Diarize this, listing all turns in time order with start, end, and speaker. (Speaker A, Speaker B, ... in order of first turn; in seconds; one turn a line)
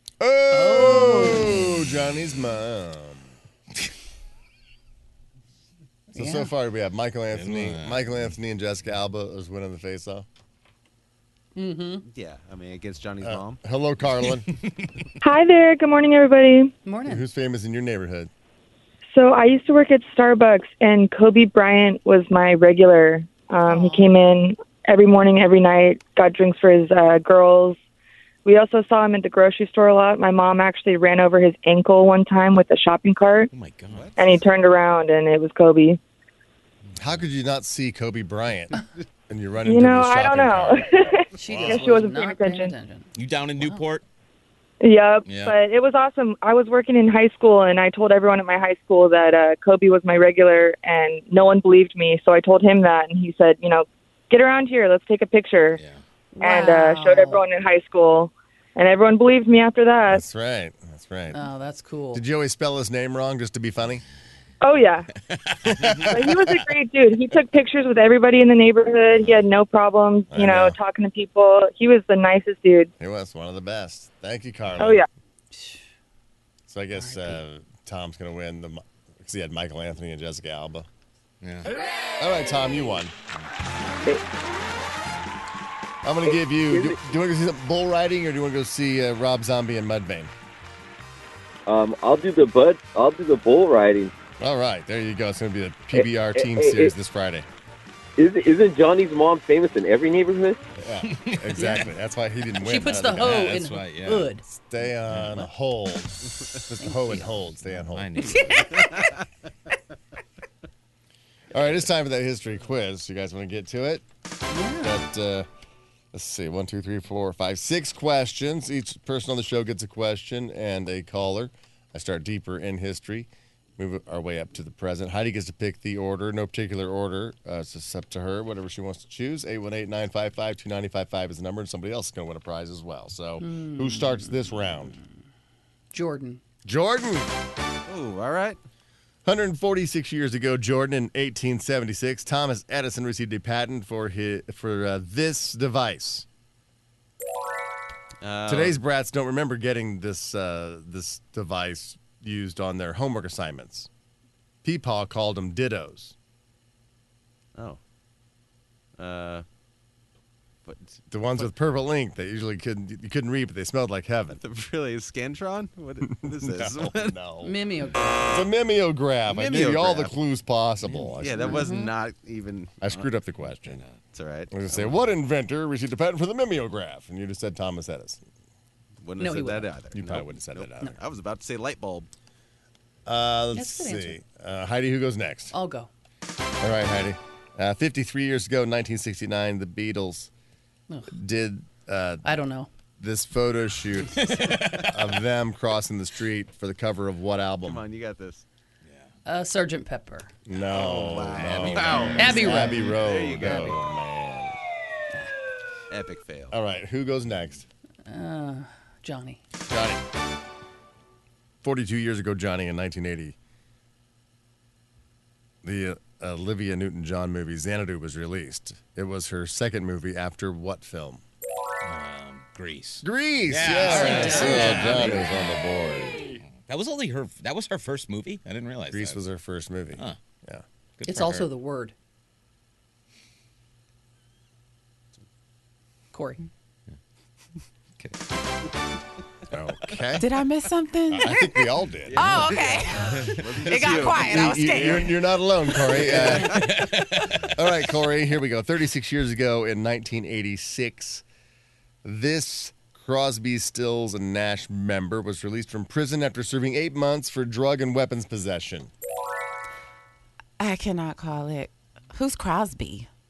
Speaker A: 0.2-3.3
Speaker B: 0.5-1.6
Speaker B: 6.1-6.5
Speaker A: 6.2-10.3
Speaker C: 7.3-8.1
Speaker B: 11.5-12.1
Speaker D: 12.1-13.6
Speaker A: 13.2-14.5
Speaker C: 14.5-15.0
Speaker E: 15.2-16.7
Speaker B: 16.8-17.2
Speaker A: 17.1-18.3
Speaker E: 19.1-27.8
Speaker B: 23.6-24.1
Speaker E: 28.4-33.5
Speaker C: 33.5-34.1
Speaker D: 33.9-34.4
Speaker E: 34.1-36.0
Speaker C: 36.9-37.2
Speaker A: 37.0-42.0
Speaker E: 39.6-42.7
Speaker B: 41.3-43.8
Speaker C: 43.1-44.0
Speaker E: 44.8-55.8
Speaker C: 45.2-45.6
Speaker C: 55.7-56.0
Speaker B: 56.3-57.4
Speaker E: 56.4-60.2
Speaker A: 60.1-61.4
Speaker B: 61.3-62.2
Speaker A: 62.1-64.0
Speaker E: 64.6-65.0
Speaker C: 65.5-66.2
Speaker E: 66.1-72.9
Speaker A: 70.3-70.8
Speaker A: 73.0-75.0
Speaker E: 74.8-75.0
Speaker B: 75.5-75.8
Speaker A: 76.7-80.9
Speaker B: 76.9-77.4
Speaker C: 81.4-81.7
Speaker A: 82.2-83.1
Speaker A: 86.0-90.3
Speaker F: 86.3-87.0
Speaker F: 91.7-94.1
Speaker A: 94.4-97.5
Speaker F: 95.9-96.9
Speaker F: 98.2-100.6
Speaker A: 100.8-103.5
Speaker C: 101.2-101.7
Speaker B: 101.5-101.9
Speaker B: 102.6-104.4
Speaker C: 103.2-104.3
Speaker A: 104.5-108.6
Speaker C: 105.0-105.4
Speaker B: 106.8-107.3
Speaker C: 107.7-108.6
Speaker B: 108.2-108.9
Speaker A: 111.5-114.0
Speaker B: 114.5-115.0
Speaker A: 114.8-115.5
Speaker A: 116.1-135.0
Speaker B: 133.4-134.3
Speaker B: 135.9-136.4
Speaker A: 136.6-137.3
Speaker D: 137.9-138.6
Speaker A: 139.2-146.2
Speaker D: 148.2-148.8
Speaker A: 148.5-153.9
Speaker A: 154.6-156.1
Speaker D: 159.0-159.4
Speaker D: 160.7-161.0
Speaker A: 161.1-164.4
Speaker D: 164.4-167.2
Speaker A: 166.0-167.5
Speaker B: 167.4-168.4
Speaker A: 168.3-171.6
Speaker D: 169.3-170.1
Speaker C: 170.8-171.1
Speaker D: 171.1-173.1
Speaker B: 171.4-171.9
Speaker A: 172.8-173.8
Speaker C: 173.5-174.0
Speaker D: 174.1-175.0
Speaker A: 174.5-178.2
Speaker D: 179.0-182.1
Speaker B: 179.2-179.7
Speaker A: 179.9-181.0
Speaker A: 183.1-185.5
Speaker B: 183.5-184.2
Speaker B: 185.5-185.9
Speaker A: 186.6-190.3
Speaker A: 191.1-192.2
Speaker B: 192.2-192.7
Speaker A: 193.0-197.8
Speaker C: 194.2-194.9
Speaker D: 197.6-198.4
Speaker C: 198.8-199.1
Speaker B: 199.2-200.3
Speaker A: 200.4-204.5
Speaker D: 200.7-203.8
Speaker C: 201.4-202.5
Speaker B: 202.2-203.8
Speaker D: 205.9-206.6
Speaker A: 206.5-207.7
Speaker B: 208.1-209.4
Speaker A: 209.6-210.0
Speaker A: 211.6-213.3
Speaker A: 215.6-221.2
Speaker C: 221.8-225.5
Speaker A: 223.0-226.2
Speaker B: 223.8-225.2
Speaker D: 224.5-225.0
Speaker C: 226.5-229.2
Speaker A: 228.9-230.6
Speaker C: 231.0-231.5
Speaker B: 231.1-231.9
Speaker B: 236.1-236.4
Speaker A: 239.5-240.3
Speaker G: 240.2-241.4
Speaker A: 241.1-242.5
Speaker D: 242.0-245.1
Speaker G: 242.2-245.0
Speaker A: 244.1-246.9
Speaker D: 246.0-246.4
Speaker C: 246.1-247.3
Speaker A: 247.4-251.2
Speaker A: 252.0-258.9
Speaker G: 260.6-263.1